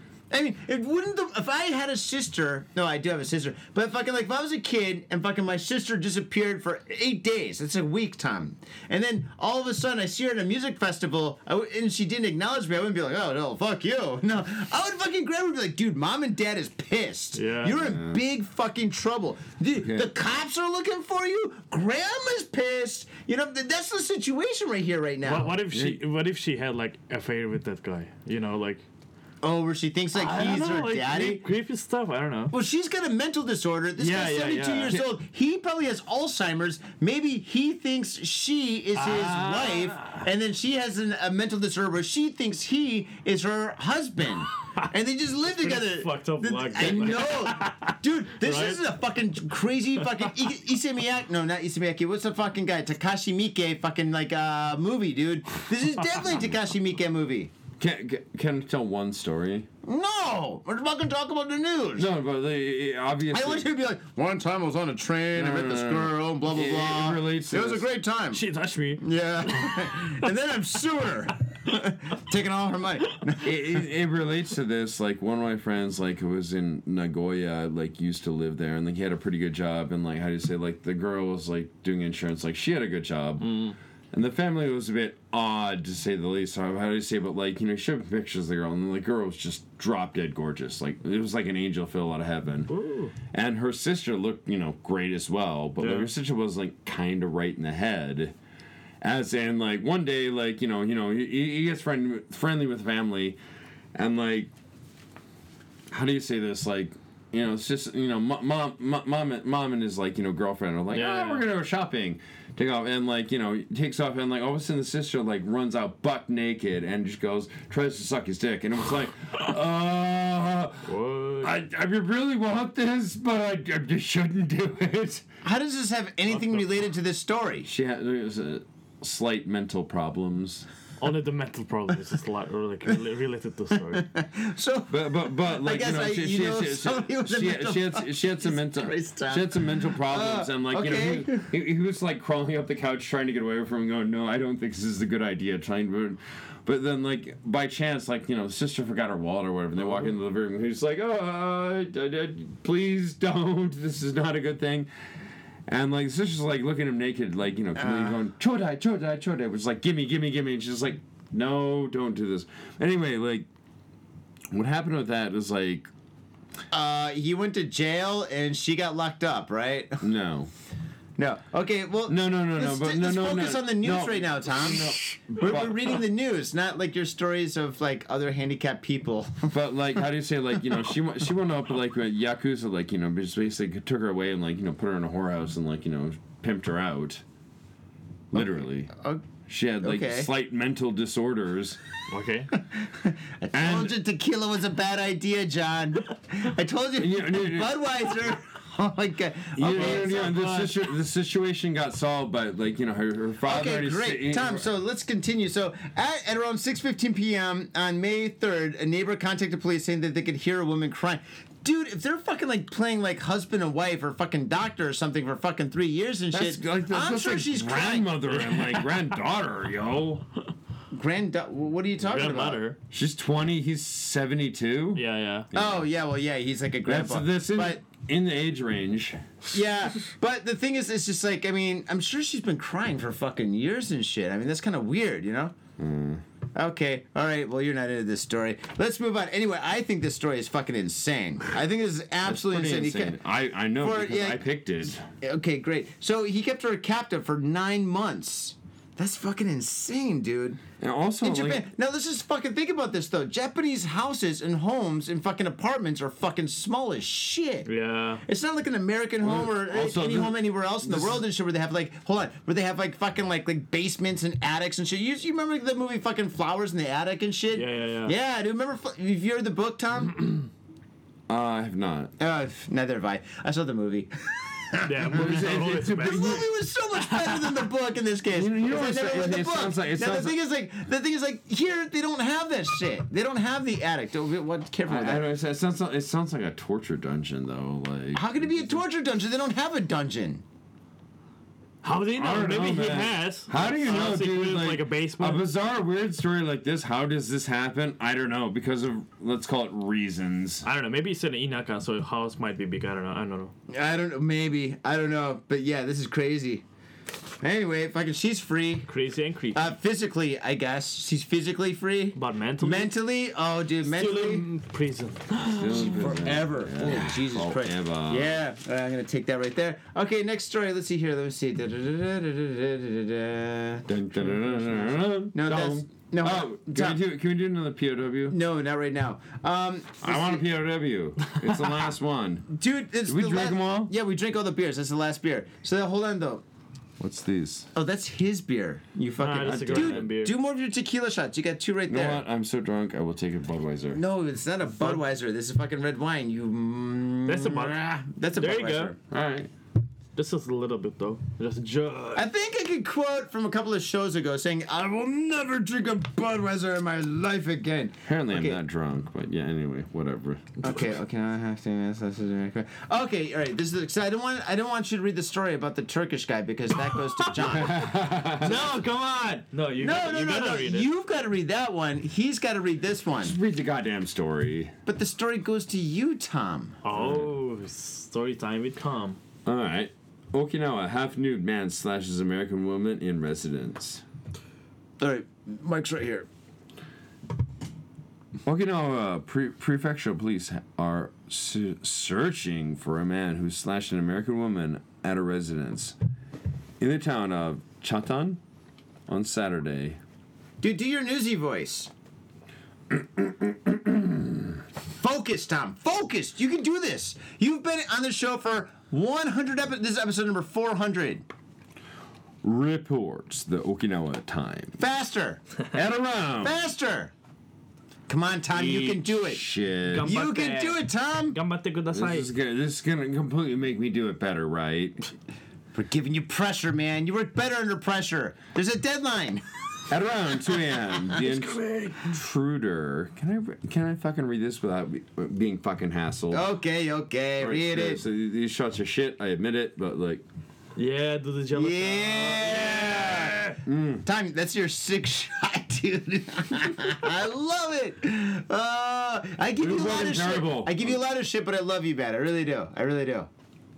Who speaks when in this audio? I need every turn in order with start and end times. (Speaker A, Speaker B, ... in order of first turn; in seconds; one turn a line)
Speaker A: 0.3-25.6
Speaker B: 17.3-17.8
Speaker C: 17.8-18.2
Speaker C: 19.7-20.1
Speaker B: 25.2-28.9
Speaker C: 25.7-26.0
Speaker A: 29.4-31.4
Speaker B: 30.1-32.5
Speaker A: 32.5-57.5
Speaker B: 34.0-35.0
Speaker B: 39.0-40.2
Speaker B: 45.5-48.8
Speaker C: 57.8-59.7
Speaker A: 59.8-62.1
Speaker C: 62.0-63.7
Speaker A: 63.3-68.4
Speaker C: 65.3-67.9
Speaker B: 68.3-70.2
Speaker A: 69.0-73.5
Speaker C: 73.4-92.7
Speaker B: 83.4-83.8
Speaker B: 92.7-93.1
Speaker C: 93.3-98.3
Speaker B: 95.8-96.1
Speaker C: 99.0-103.4
Speaker C: 103.9-104.5
Speaker C: 105.9-125.2
Speaker B: 110.9-111.5
Speaker B: 120.8-121.6
Speaker A: 125.4-127.7
Speaker C: 127.7-130.7
Speaker B: 131.0-134.1
Speaker A: 133.9-141.5
Speaker C: 134.9-154.9
Speaker C: 155.7-163.5
Speaker A: 157.8-158.2
Speaker C: 164.5-165.9
Speaker A: 166.7-170.0
Speaker C: 170.0-170.5
Speaker A: 171.2-179.5
Speaker C: 172.1-176.0
Speaker C: 179.5-187.2
Speaker C: 188.3-188.9
Speaker A: 188.3-189.2
Speaker C: 189.5-191.8
Speaker A: 189.8-190.3
Speaker B: 192.1-192.5
Speaker A: 192.8-200.3
Speaker C: 193.5-194.0
Speaker C: 196.9-197.8
Speaker C: 199.5-204.7
Speaker B: 199.7-200.8
Speaker A: 203.4-218.2
Speaker C: 216.3-220.2
Speaker B: 218.4-219.0
Speaker A: 220.9-222.6
Speaker B: 222.0-222.8
Speaker C: 222.9-225.8
Speaker B: 224.9-225.5
Speaker A: 225.5-227.8
Speaker C: 226.8-229.2
Speaker A: 229.5-235.5
Speaker C: 235.8-236.2
Speaker A: 236.5-243.2
Speaker C: 242.2-245.0
Speaker A: 243.8-244.4
Speaker A: 245.2-250.6
Speaker C: 250.8-251.7
Speaker A: 251.2-257.7
Speaker B: 257.6-258.2
Speaker A: 258.2-270.3
Speaker C: 259.2-261.2
Speaker B: 267.5-268.1
Speaker C: 271.3-272.1
Speaker A: 272.2-285.2
Speaker B: 274.9-276.4
Speaker C: 275.0-276.5
Speaker B: 277.1-277.6
Speaker C: 278.3-280.4
Speaker C: 284.9-288.8
Speaker A: 288.1-290.4
Speaker B: 291.8-295.4
Speaker C: 292.1-300.6
Speaker B: 300.6-303.5
Speaker A: 303.7-306.6
Speaker A: 307.4-308.9
Speaker B: 308.9-309.6
Speaker A: 309.5-314.4
Speaker B: 312.1-312.9
Speaker B: 313.8-316.1
Speaker C: 315.5-318.4
Speaker A: 315.8-327.0
Speaker C: 323.9-328.4
Speaker A: 328.3-330.4
Speaker C: 330.0-333.9
Speaker B: 331.4-331.6
Speaker A: 332.5-336.4
Speaker C: 337.0-337.7
Speaker A: 337.7-342.2
Speaker B: 339.2-340.4
Speaker C: 339.4-340.1
Speaker C: 341.9-344.0
Speaker A: 343.9-349.0
Speaker B: 344.7-345.0
Speaker B: 347.2-347.8
Speaker B: 348.3-348.9
Speaker C: 349.1-349.5
Speaker B: 350.1-352.3
Speaker A: 352.1-358.6
Speaker C: 358.1-360.6
Speaker A: 360.6-367.9
Speaker B: 367.2-367.7
Speaker C: 367.4-368.5
Speaker B: 368.3-370.9
Speaker A: 368.4-373.4
Speaker C: 373.2-374.7
Speaker A: 374.9-376.8
Speaker B: 376.8-379.2
Speaker C: 376.9-377.4
Speaker C: 379.4-384.0
Speaker A: 385.0-386.3
Speaker C: 388.4-395.9
Speaker C: 396.8-398.4
Speaker C: 399.1-400.0
Speaker A: 400.6-401.9
Speaker C: 403.2-404.4
Speaker A: 404.9-411.2
Speaker C: 412.4-414.8
Speaker A: 414.8-415.4
Speaker C: 415.7-416.6
Speaker A: 416.4-417.1
Speaker A: 418.1-419.5
Speaker C: 418.5-420.1
Speaker B: 419.9-422.3
Speaker A: 420.0-421.4
Speaker C: 421.9-425.1
Speaker A: 425.7-429.4
Speaker C: 429.9-436.5
Speaker B: 431.1-432.1
Speaker A: 436.3-438.0
Speaker C: 437.4-440.2
Speaker B: 440.8-443.6
Speaker A: 441.5-453.3
Speaker C: 443.6-444.0
Speaker C: 449.6-451.0